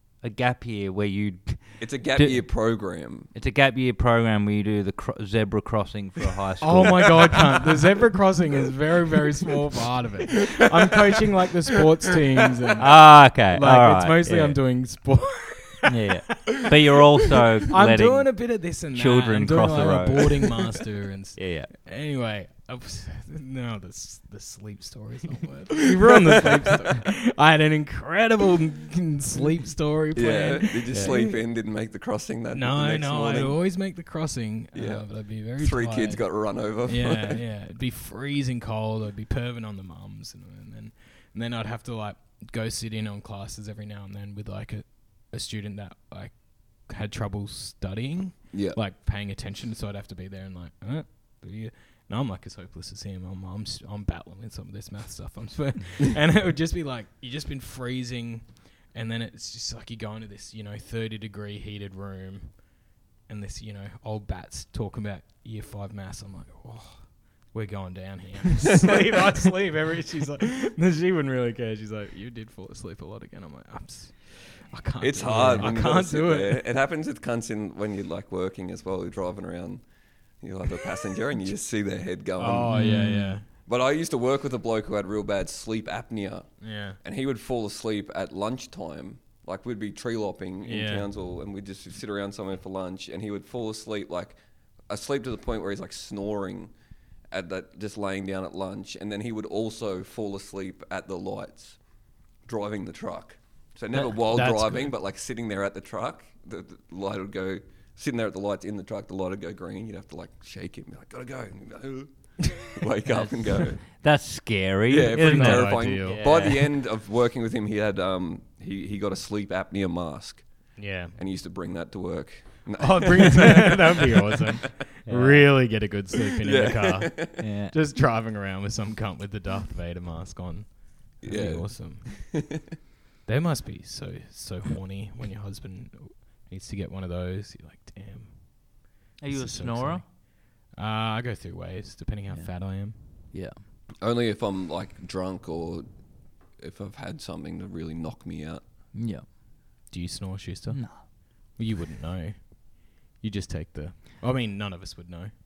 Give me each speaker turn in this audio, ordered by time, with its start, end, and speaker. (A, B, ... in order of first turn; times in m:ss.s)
0:00.2-0:07.5 A
0:01.8-0:03.3 B
0:06.6-0:16.7 C
0:12.8-0:14.6 A
0:15.9-0:20.6 A
0:17.7-0:31.4 C
0:21.4-0:21.7 A
0:30.2-0:33.6 B
0:32.5-1:16.7 C
0:34.7-0:37.4 B
0:48.5-0:48.8 B
1:15.0-1:19.8 B
1:15.3-1:15.7 A
1:20.4-1:22.8 B
1:22.4-1:23.5 C
1:22.7-1:23.4 A
1:23.6-1:36.7 B
1:26.6-1:27.0 C
1:30.6-1:31.1 C
1:37.3-1:41.8 B
1:42.5-1:53.8 B
1:43.9-1:44.9 C
1:53.1-1:56.7 A
1:54.9-2:04.4 B
1:55.2-1:56.2 C
2:00.8-2:01.2 C
2:02.8-2:12.4 C
2:05.1-2:05.5 A
2:06.4-2:07.4 B
2:07.4-2:07.8 A
2:11.2-2:12.6 B
2:13.3-2:23.1 C
2:19.2-2:20.1 A
2:22.3-2:23.6 A
2:24.0-2:25.9 B
2:26.5-2:28.6 B
2:29.0-2:29.3 A
2:29.9-2:35.3 C
2:30.7-2:31.1 A